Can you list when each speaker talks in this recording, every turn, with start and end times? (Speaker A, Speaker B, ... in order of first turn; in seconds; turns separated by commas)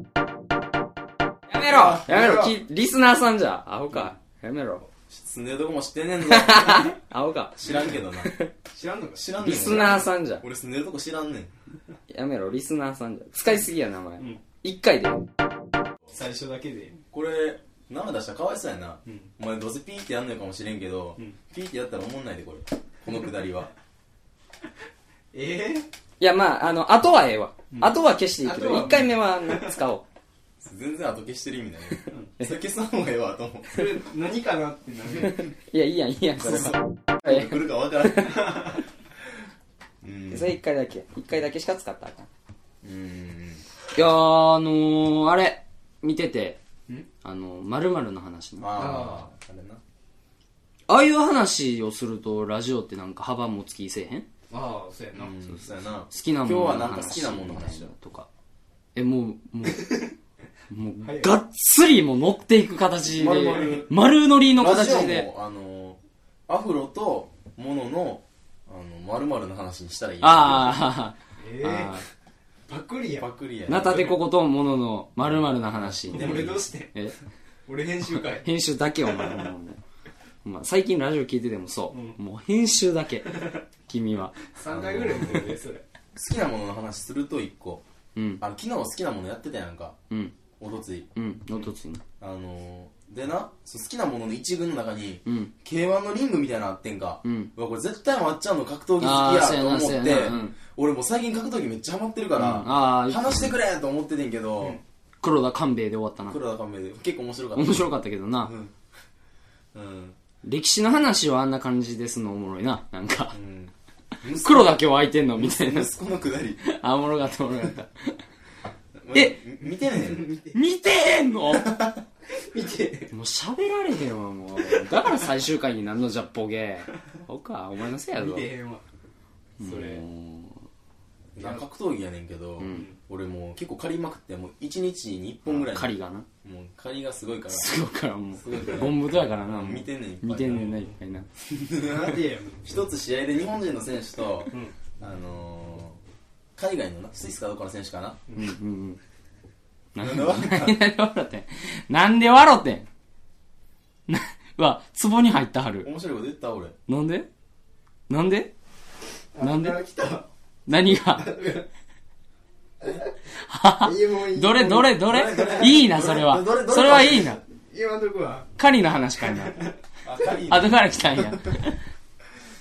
Speaker A: 1.5-4.9, Speaker B: 1.7-2.5, Speaker C: 5.1-6.9, Speaker A: 6.2-8.5, Speaker C: 7.6-8.3, Speaker B: 8.7-9.9, Speaker C: 9.1-11.5, Speaker A: 9.4-10.4, Speaker A: 12.1-15.2, Speaker B: 16.1-17.0, Speaker C: 17.1-23.7, Speaker B: 25.3-25.9, Speaker A: 26.2-30.0, Speaker B: 27.7-29.7, Speaker C: 30.6-33.9, Speaker B: 33.7-35.5, Speaker A: 35.2-38.7, Speaker C: 36.4-38.8, Speaker C: 40.0-40.5, Speaker A: 40.3-42.3, Speaker C: 42.8-43.6, Speaker A: 43.9-46.6, Speaker A: 47.2-49.0, Speaker C: 48.6-49.8, Speaker B: 48.7-49.3, Speaker A: 50.9-54.3, Speaker B: 54.5-55.4, Speaker C: 55.1-57.9, Speaker A: 55.5-58.3, Speaker A: 58.9-60.1, Speaker B: 59.8-60.0, Speaker A: 60.7-65.3, Speaker B: 61.0-61.3, Speaker C: 63.1-63.9, Speaker B: 63.4-63.8, Speaker C: 64.5-70.7, Speaker A: 70.2-72.0, Speaker B: 71.4-72.0, Speaker B: 72.7-73.3, Speaker C: 73.2-74.1, Speaker A: 73.7-77.2, Speaker C: 75.7-76.5, Speaker B: 76.1-76.9, Speaker B: 77.7-78.5, Speaker A: 78.3-79.8, Speaker A: 80.4-84.3, Speaker B: 81.9-82.2, Speaker B: 84.5-85.8, Speaker C: 84.7-85.5, Speaker C: 86.2-87.8, Speaker A: 88.2-88.4, Speaker C: 88.4-90.0, Speaker C: 90.6-91.1, Speaker A: 91.1-92.0, Speaker C: 92.2-104.8, Speaker A: 95.2-95.5, Speaker A: 97.2-97.5, Speaker A: 99.0-100.5, Speaker A: 102.3-103.5, Speaker A: 105.2-106.4, Speaker C: 106.3-107.9, Speaker A: 107.5-108.5, Speaker C: 108.4-108.7, Speaker C: 109.7-110.2, Speaker A: 110.4-113.4, Speaker C: 113.3-116.6, Speaker A: 114.3-115.9, Speaker A: 116.6-118.2, Speaker C: 119.0-120.3, Speaker B: 119.8-120.5, Speaker A: 120.5-121.7, Speaker C: 121.5-122.0, Speaker B: 122.3-123.1, Speaker A: 123.1-128.5, Speaker B: 128.2-128.8, Speaker A: 129.6-130.6, Speaker B: 129.6-130.0, Speaker C: 131.3-137.7, Speaker A: 132.6-132.9, Speaker B: 132.7-133.0, Speaker A: 135.4-136.3, Speaker A: 137.5-141.3, Speaker B: 138.4-138.9, Speaker C: 138.4-140.7, Speaker B: 140.5-140.9, Speaker C: 141.4-146.0, Speaker B: 141.8-142.6, Speaker C: 146.6-148.2, Speaker A: 148.3-149.0, Speaker A: 149.9-152.9, Speaker C: 150.0-150.8, Speaker A: 154.1-155.9, Speaker C: 155.8-156.8, Speaker A: 156.9-157.3, Speaker A: 158.1-158.5, Speaker B: 159.3-160.3, Speaker A: 159.4-159.8, Speaker A: 160.7-161.4, Speaker B: 161.0-161.7, Speaker A: 163.4-167.4, Speaker B: 163.8-165.6, Speaker C: 165.0-167.4, Speaker B: 167.7-168.5, Speaker A: 168.6-169.6, Speaker B: 169.3-169.7, Speaker C: 170.0-171.4, Speaker A: 170.5-171.8